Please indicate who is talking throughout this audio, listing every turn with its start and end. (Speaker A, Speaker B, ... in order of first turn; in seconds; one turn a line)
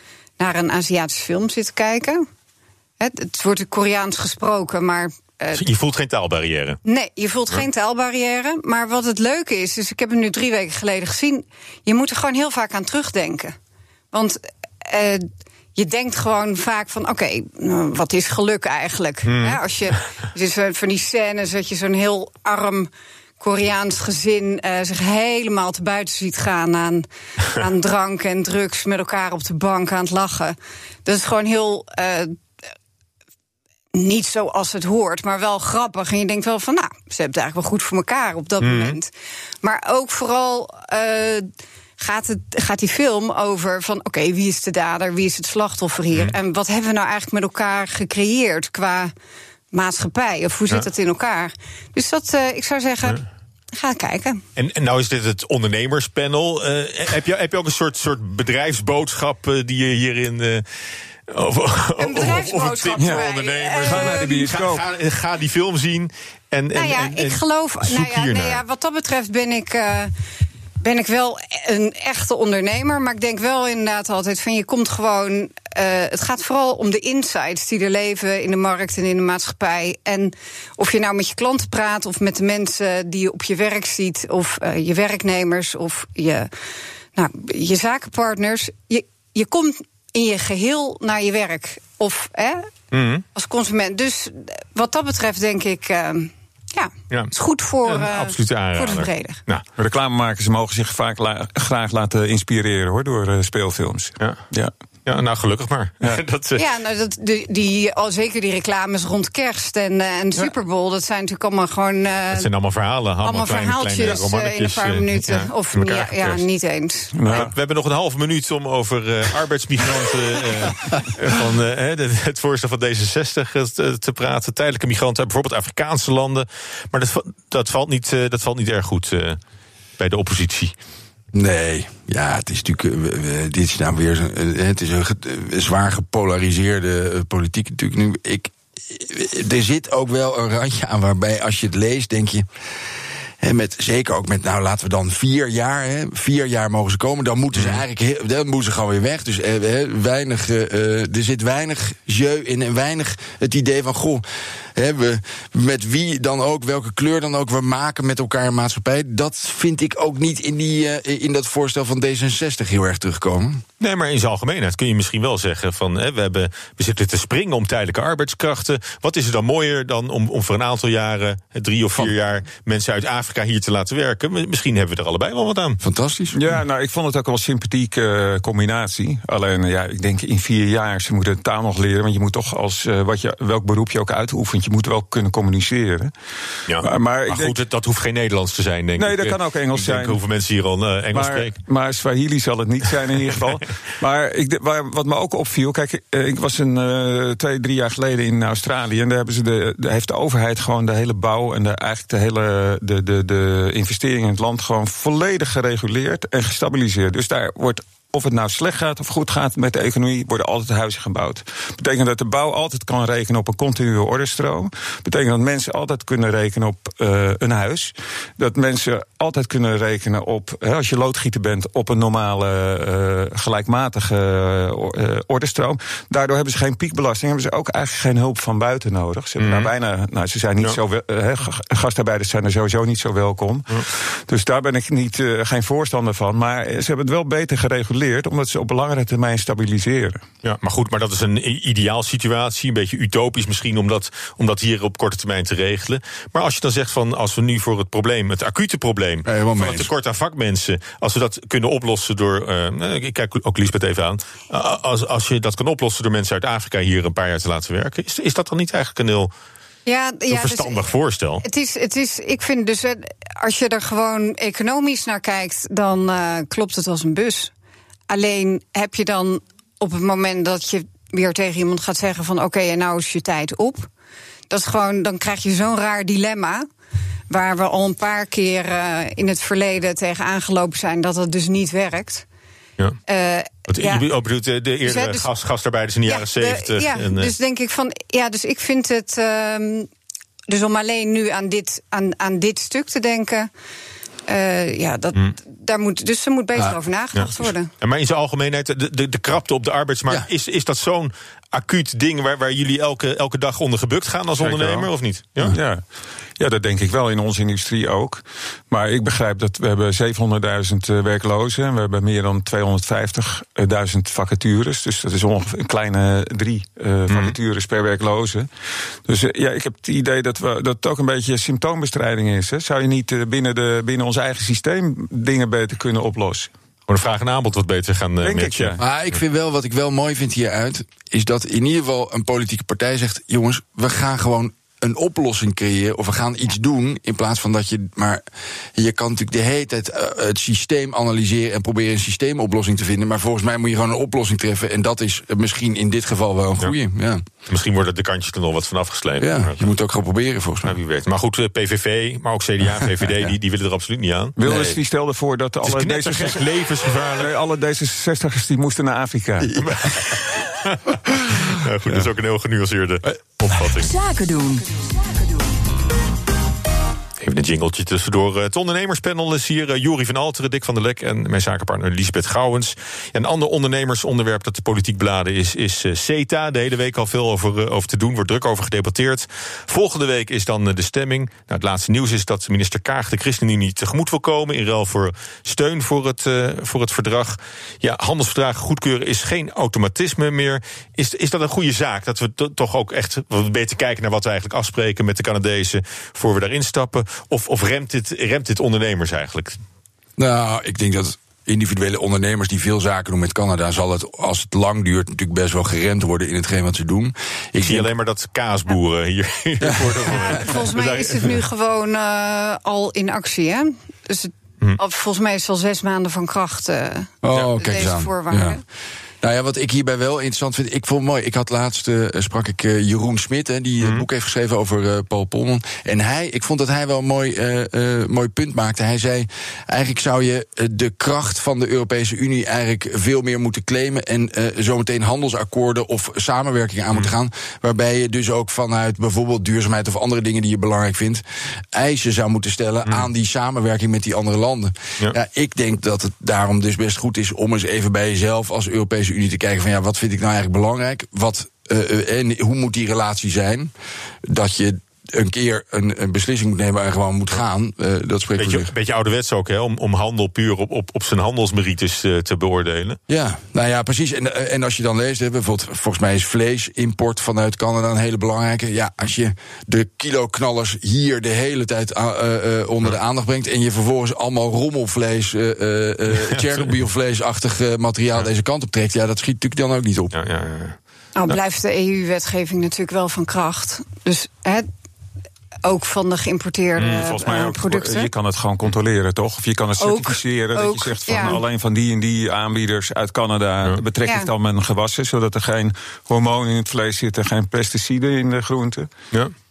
Speaker A: 0.4-2.2
Speaker A: 3.0-5.6
Speaker B: 5.5-6.8
Speaker A: 6.9-13.6
Speaker A: 14.1-15.2
Speaker A: 15.8-22.9
Speaker B: 19.2-19.6
Speaker A: 23.4-32.4
Speaker A: 33.9-39.1
Speaker B: 38.6-39.0
Speaker A: 39.6-41.5
Speaker A: 42.0-49.1
Speaker A: 49.7-54.4
Speaker B: 54.6-60.6
Speaker B: 61.3-68.6
Speaker A: 62.0-64.5
Speaker C: 63.0-63.2
Speaker C: 63.8-64.8
Speaker A: 66.7-70.1
Speaker A: 70.8-86.5
Speaker A: 87.2-92.7
Speaker B: 92.9-93.2
Speaker A: 93.3-99.4
Speaker B: 97.8-99.6
Speaker C: 99.8-104.7
Speaker B: 105.1-106.7
Speaker A: 106.6-112.5
Speaker B: 112.3-116.5
Speaker A: 113.2-117.1
Speaker C: 117.1-117.5
Speaker B: 117.3-129.4
Speaker B: 130.0-130.8
Speaker D: 131.3-142.5
Speaker D: 143.4-154.2
Speaker B: 147.6-147.8
Speaker D: 154.8-163.6
Speaker B: 163.8-175.8
Speaker D: 175.8-176.4
Speaker C: 176.3-186.1
Speaker B: 186.7-191.6
Speaker C: 186.8-187.5
Speaker C: 189.0-190.2
Speaker C: 191.1-240.2
Speaker B: 229.4-229.7
Speaker B: 240.4-259.3
Speaker D: 249.3-249.9
Speaker A: 259.9-260.9
Speaker B: 260.3-261.4
Speaker A: 261.4-267.5
Speaker A: 268.1-273.9
Speaker A: 274.5-276.6
Speaker A: 277.3-282.2
Speaker A: 283.1-284.0
Speaker B: 283.7-287.3
Speaker A: 284.9-285.3
Speaker A: 286.1-289.9
Speaker A: 290.5-293.5
Speaker A: 294.3-297.7
Speaker B: 297.1-305.5
Speaker C: 304.4-304.9
Speaker C: 305.5-305.9
Speaker C: 306.4-318.5
Speaker B: 317.1-317.4
Speaker C: 319.1-326.5
Speaker B: 326.9-328.8
Speaker C: 328.2-328.8
Speaker D: 328.8-338.2
Speaker D: 338.8-347.2
Speaker B: 347.5-349.7
Speaker D: 349.2-350.8
Speaker B: 350.6-354.4
Speaker C: 354.4-359.6
Speaker D: 354.4-354.8
Speaker B: 355.6-357.3
Speaker B: 359.6-364.1
Speaker D: 359.6-360.1
Speaker D: 361.1-362.1
Speaker D: 363.9-364.5
Speaker B: 367.2-399.6
Speaker D: 400.2-407.9
Speaker B: 407.6-411.4
Speaker D: 409.6-410.4
Speaker A: 410.1-418.6
Speaker D: 417.2-418.6
Speaker B: 417.3-417.6
Speaker D: 419.2-453.7
Speaker B: 423.8-424.1
Speaker D: 454.2-458.7
Speaker B: 458.4-463.0
Speaker D: 463.1-480.1
Speaker B: 476.2-476.7
Speaker B: 480.1-480.8
Speaker A: 481.2-484.7
Speaker A: 485.6-488.1
Speaker C: 486.8-498.9
Speaker B: 486.8-487.1
Speaker A: 489.8-491.4
Speaker A: 494.1-494.3